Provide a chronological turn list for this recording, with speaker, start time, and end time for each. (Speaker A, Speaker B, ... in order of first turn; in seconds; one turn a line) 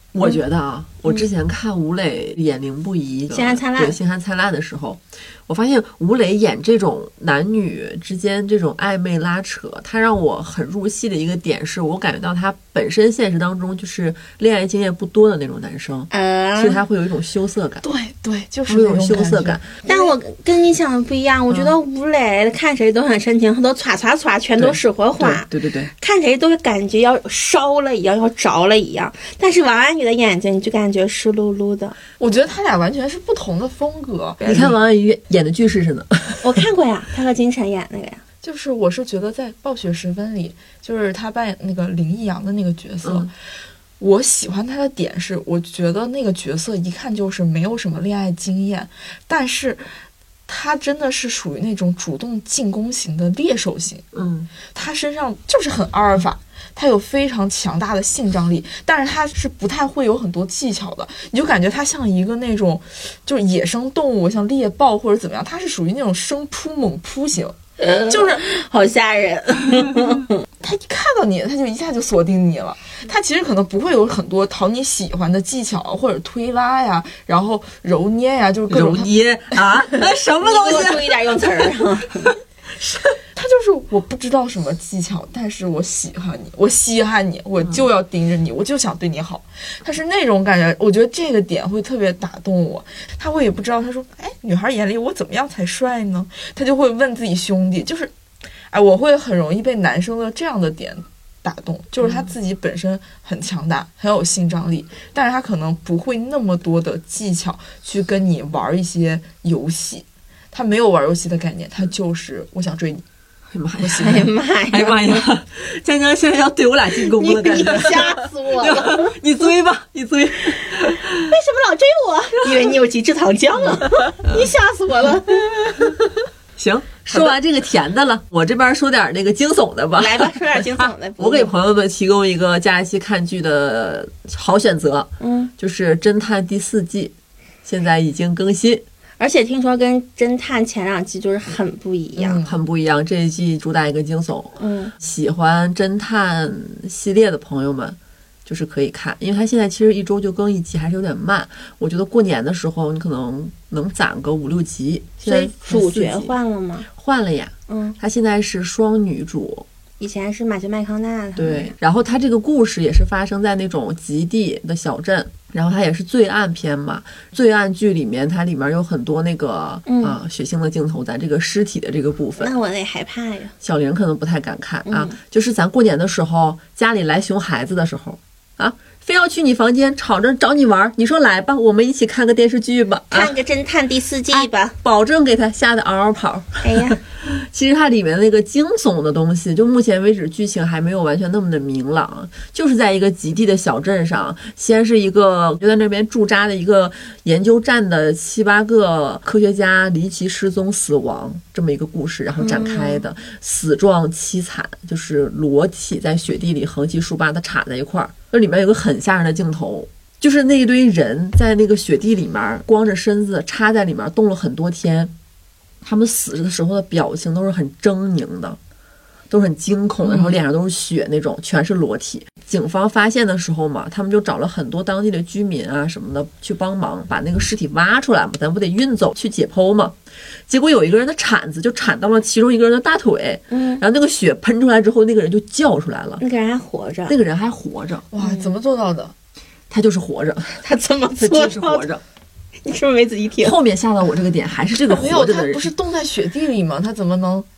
Speaker A: 0.1-17.9
Speaker B: 3.3-4.0
Speaker B: 16.1-16.8
Speaker C: 17.8-20.1
Speaker A: 18.7-19.6
Speaker B: 19.8-31.9
Speaker A: 24.6-25.9
Speaker C: 32.2-34.8
Speaker A: 34.4-36.6
Speaker B: 36.4-38.2
Speaker C: 38.4-43.3
Speaker A: 43.0-43.3
Speaker C: 44.0-49.9
Speaker C: 50.5-54.0
Speaker A: 54.1-54.5
Speaker C: 54.7-67.5
Speaker B: 67.8-70.4
Speaker C: 68.1-68.4
Speaker C: 70.6-79.1
Speaker A: 78.7-81.5
Speaker B: 80.4-82.3
Speaker C: 83.3-98.1
Speaker C: 98.7-113.0
Speaker A: 113.5-121.3
Speaker C: 113.8-114.3
Speaker B: 114.0-115.2
Speaker B: 117.1-119.1
Speaker B: 121.2-125.4
Speaker A: 126.6-137.1
Speaker B: 129.9-131.5
Speaker B: 135.2-135.5
Speaker A: 137.6-138.8
Speaker B: 139.2-142.4
Speaker C: 142.2-142.5
Speaker A: 142.4-156.3
Speaker B: 144.6-144.9
Speaker B: 155.2-156.9
Speaker A: 156.9-159.7
Speaker B: 157.7-157.9
Speaker B: 160.0-161.7
Speaker A: 161.3-172.5
Speaker B: 169.9-170.2
Speaker B: 172.4-173.5
Speaker A: 173.6-183.3
Speaker B: 174.8-175.2
Speaker B: 183.1-184.7
Speaker A: 184.3-215.1
Speaker B: 186.6-187.0
Speaker B: 202.4-203.0
Speaker A: 215.8-218.6
Speaker A: 219.3-229.9
Speaker C: 220.0-220.4
Speaker A: 230.5-236.2
Speaker B: 233.5-233.8
Speaker B: 236.2-237.2
Speaker A: 237.1-238.1
Speaker C: 238.1-239.1
Speaker B: 238.2-238.5
Speaker A: 239.7-240.6
Speaker B: 240.6-241.8
Speaker A: 241.2-242.0
Speaker B: 242.6-243.6
Speaker A: 243.4-245.7
Speaker C: 244.9-247.5